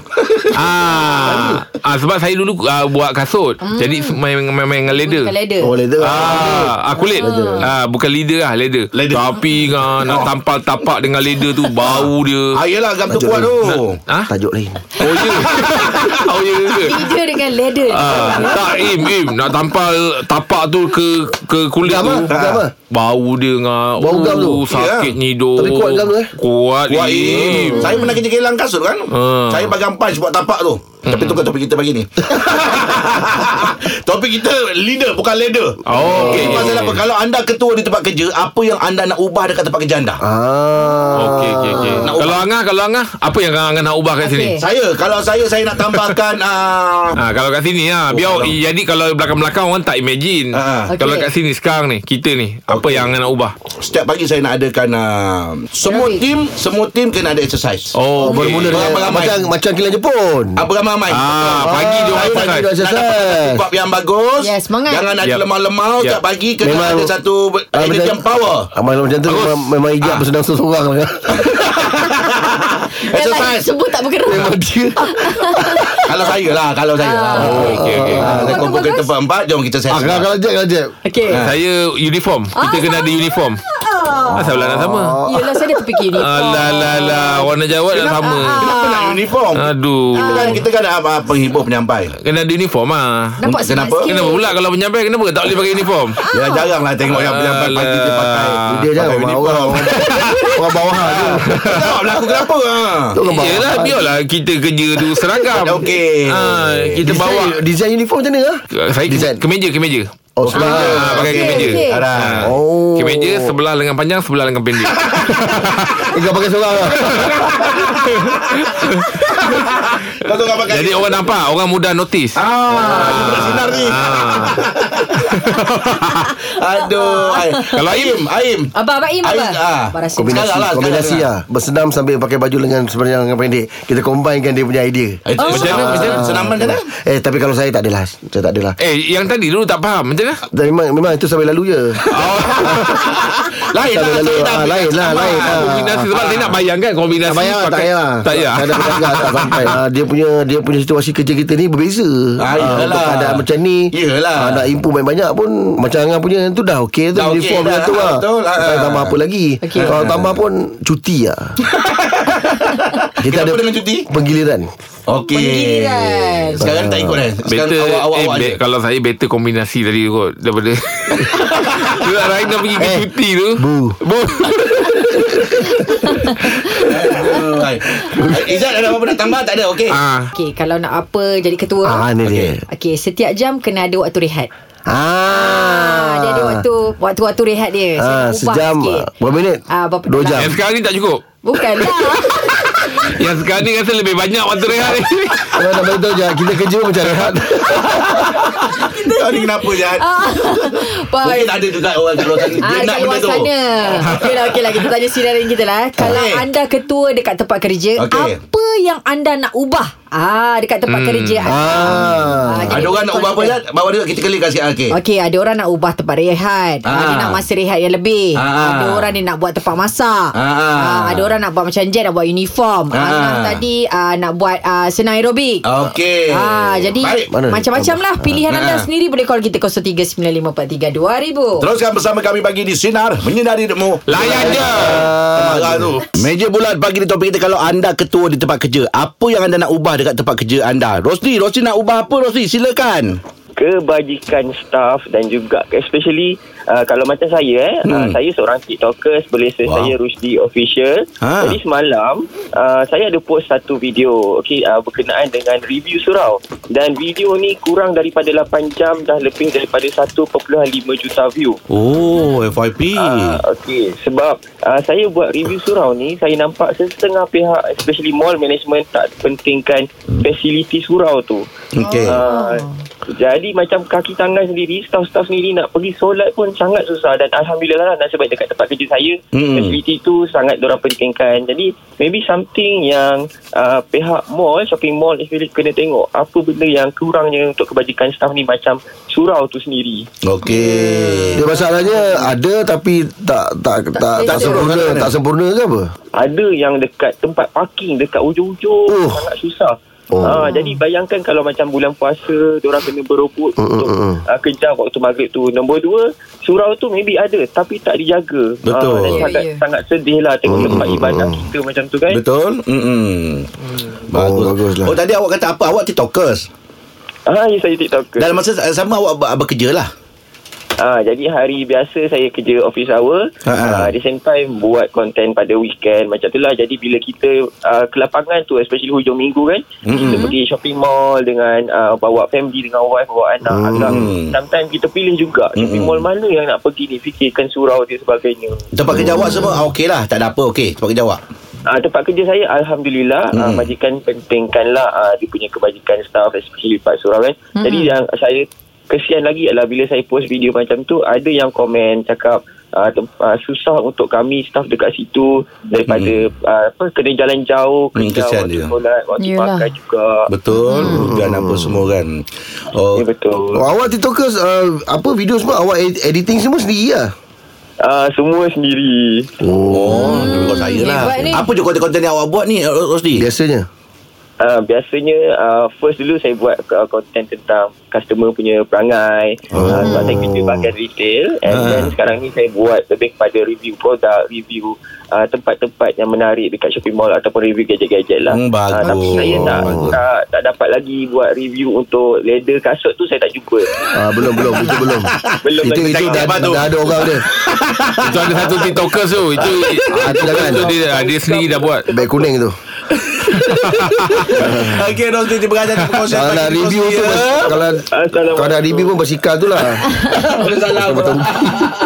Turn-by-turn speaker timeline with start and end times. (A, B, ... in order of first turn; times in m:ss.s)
0:00.2-0:00.4 A
0:00.5-0:05.3 B
0:03.6-0:04.2 C
0:04.9-0:05.7 C
0:05.6-0:07.7 D
0:06.0-0:12.6 B
0:07.0-0:07.7 C
0:08.9-0:09.3 A
0:10.0-0:10.3 A
0:11.8-0:14.0 A
0:13.1-0:13.6 D
0:13.6-0:14.3 B
0:14.3-0:14.9 D
0:15.0-0:15.3 C
0:15.0-0:17.0 B
0:16.8-0:18.7 C
0:17.9-0:22.3 B
0:21.8-0:22.7 D
0:22.9-0:28.0 B
0:24.0-0:24.7 D
0:24.7-0:25.1 A
0:25.6-0:26.3 D
0:26.9-0:35.7 A
0:27.3-0:28.0 D
0:27.7-0:28.0 C
0:29.1-0:29.7 B
0:31.1-0:31.4 B
0:35.9-0:37.0 B
0:35.9-0:36.6 D
0:36.0-0:36.7 C
0:36.2-0:40.2 A
0:40.2-0:42.2 D
0:41.2-0:44.6 B
0:42.0-0:42.4 A
0:44.2-0:44.6 C
0:44.6-0:47.2 A
0:45.9-0:46.1 B
0:47.2-0:53.6 B
0:48.1-0:48.6 A
0:50.5-0:50.9 A
0:50.9-0:51.3 C
0:52.7-0:53.1 A
0:53.8-0:58.0 A
0:55.8-0:56.2 C
0:57.9-0:58.9 B
0:58.2-1:00.6 D
0:58.6-0:59.4 A
1:00.6-1:01.6 A
1:01.1-1:02.7 B
1:01.4-1:03.7 D
1:02.1-1:08.7 A
1:04.4-1:05.1 C
1:05.2-1:05.5 B
1:06.6-1:07.1 D
1:07.8-1:08.2 D
1:08.8-1:11.5 D
1:09.3-1:09.6 B
1:12.9-1:16.4 C
1:13.1-1:13.7 A
1:14.2-1:15.9 D
1:16.1-1:17.5 A
1:17.0-1:19.1 C
1:17.3-1:18.7 D
1:17.4-1:18.5 B
1:18.6-1:20.2 A
1:19.9-1:20.9 D
1:21.0-1:21.5 C
1:21.4-1:23.6 B
1:22.6-1:24.5 C
1:24.4-1:25.2 B
1:24.5-1:25.6 D
1:25.3-1:27.5 C
1:26.2-1:28.7 B
1:27.9-1:32.1 A
1:28.2-1:29.2 C
1:29.5-1:30.5 B
1:30.2-1:30.6 C
1:32.2-1:33.4 B
1:33.4-1:34.5 C
1:33.5-1:34.1 A
1:34.1-1:36.2 B
1:36.2-1:36.7 C
1:36.3-1:39.8 A
1:37.1-1:39.0 B
1:38.7-1:42.4 D
1:39.9-1:40.4 B
1:41.1-1:43.2 A
1:41.5-1:42.0 B
1:43.1-1:44.1 D
1:43.3-1:47.6 B
1:45.5-1:46.5 A
1:47.0-1:49.4 D
1:48.7-1:50.1 B
1:50.4-1:51.3 D
1:50.4-1:52.5 A
1:50.5-1:52.1 C
1:50.8-1:56.0 B
1:52.4-1:53.6 D
1:56.1-1:57.7 D
1:57.0-1:57.4 B
1:58.0-1:59.0 B
1:59.6-2:01.3 A
2:00.7-2:02.4 B
2:02.4-2:05.1 A
2:02.7-2:03.6 C
2:02.9-2:04.6 B
2:05.2-2:06.1 B
2:06.6-2:08.7 A
2:06.9-2:07.7 C
2:07.8-2:08.2 B
2:08.8-2:10.4 C
2:09.2-2:11.2 A
2:10.2-2:18.8 D
2:15.3-2:16.8 A
2:15.4-2:16.0 C
2:15.4-2:16.2 B
2:18.8-2:20.4 B
2:20.5-2:22.0 D
2:22.1-2:23.0 B
2:22.6-2:22.9 D
2:23.7-2:25.6 A
2:23.8-2:26.1 D
2:25.4-2:29.8 B
2:26.1-2:26.6 A
2:27.2-2:41.6 D
2:32.4-2:33.4 A
2:33.9-2:34.6 A
2:37.2-2:39.0 A
2:39.6-2:40.0 C
2:39.8-2:40.3 A
2:43.2-2:44.7 D
2:43.3-2:44.0 A
2:45.1-2:48.6 A
2:45.2-2:46.6 C
2:46.6-2:47.2 D
2:47.4-2:55.0 B
2:52.8-2:54.0 D
2:54.8-2:56.7 D
2:56.0-2:56.6 C
2:56.9-3:00.0 A
2:58.0-2:58.5 D
2:59.9-3:00.3 B
3:00.3-3:02.0 C
3:01.8-3:02.6 D
3:02.7-3:04.5 C
3:04.9-3:06.6 D
3:05.3-3:09.1 C
3:08.0-3:10.6 D
3:09.7-3:10.6 C
3:10.4-3:11.2 B
3:11.4-3:12.9 C
3:12.9-3:15.6 B
3:15.5-3:18.2 D
3:17.0-3:17.4 B
3:18.8-3:21.6 C
3:19.1-3:20.0 A
3:21.2-3:23.4 A
3:22.2-3:33.6 C
3:28.0-3:28.4 A
3:30.9-3:31.5 B
3:31.5-3:32.9 D
3:32.7-3:35.0 A
3:34.9-3:45.7 C
3:36.8-3:37.3 A
3:38.4-3:38.9 A
3:40.4-3:41.3 A
3:42.9-3:43.5 A
3:45.6-3:46.4 A
3:46.3-3:51.7 C
3:47.0-3:47.3 A
3:47.3-3:48.4 D
3:51.6-4:03.2 A
3:54.1-3:55.0 B
3:54.2-3:56.0 D
4:03.6-4:21.6 E
4:11.2-4:11.5 A
4:21.7-4:23.3 A
4:23.0-4:31.4 E
4:31.8-4:32.2 A
4:31.8-4:32.8 C
4:32.0-4:50.1 E
4:50.3-4:51.4 A
4:50.5-4:51.5 C
4:51.4-4:55.9 D
4:54.0-4:54.7 C
4:54.3-4:55.1 A
4:56.2-5:12.2 E
4:58.9-4:59.3 D
5:00.1-5:00.5 D
5:00.2-5:00.8 C
5:03.6-5:04.2 D
5:08.7-5:09.0 A
5:09.1-5:09.6 C
5:10.5-5:11.4 D
5:12.1-5:13.5 A
5:14.1-5:16.5 A
5:14.1-5:15.0 D
5:17.3-5:18.3 E
5:18.2-5:19.9 A
5:20.8-5:39.0 E
5:23.5-5:23.9 A
5:29.8-5:30.2 A
5:30.0-5:30.3 C
5:33.5-5:34.1 D
5:33.9-5:34.3 A
5:35.6-5:35.9 A
5:38.8-5:41.2 A
5:39.0-5:39.3 D
5:41.7-6:00.3 E
5:47.6-5:48.0 C
5:58.0-5:58.7 A
5:59.2-5:59.7 C
6:00.3-6:02.2 A
6:00.5-6:01.1 C
6:00.8-6:01.9 D
6:02.8-6:03.0 A
6:02.9-6:03.6 E
6:03.5-6:07.1 D
6:07.8-6:09.3 E
6:09.4-6:10.3 D
6:09.7-6:13.2 A
6:09.9-6:11.5 C
6:13.2-6:13.7 D
6:14.4-6:33.7 E
6:19.5-6:20.2 D
6:19.8-6:20.3 C
6:21.5-6:21.8 A
6:28.3-6:29.3 A
6:28.8-6:29.6 C
6:29.3-6:30.0 D
6:33.9-6:37.2 D
6:34.7-6:38.7 A
6:35.4-6:36.4 E
6:38.0-6:41.8 B
6:39.4-6:40.0 A
6:39.9-6:40.8 D
6:40.4-6:42.3 E
6:41.9-6:42.5 D
6:43.3-6:44.6 B
6:44.3-6:47.2 A
6:44.3-6:44.9 D
6:46.1-6:49.9 D
6:47.4-6:49.0 E
6:50.6-6:51.7 D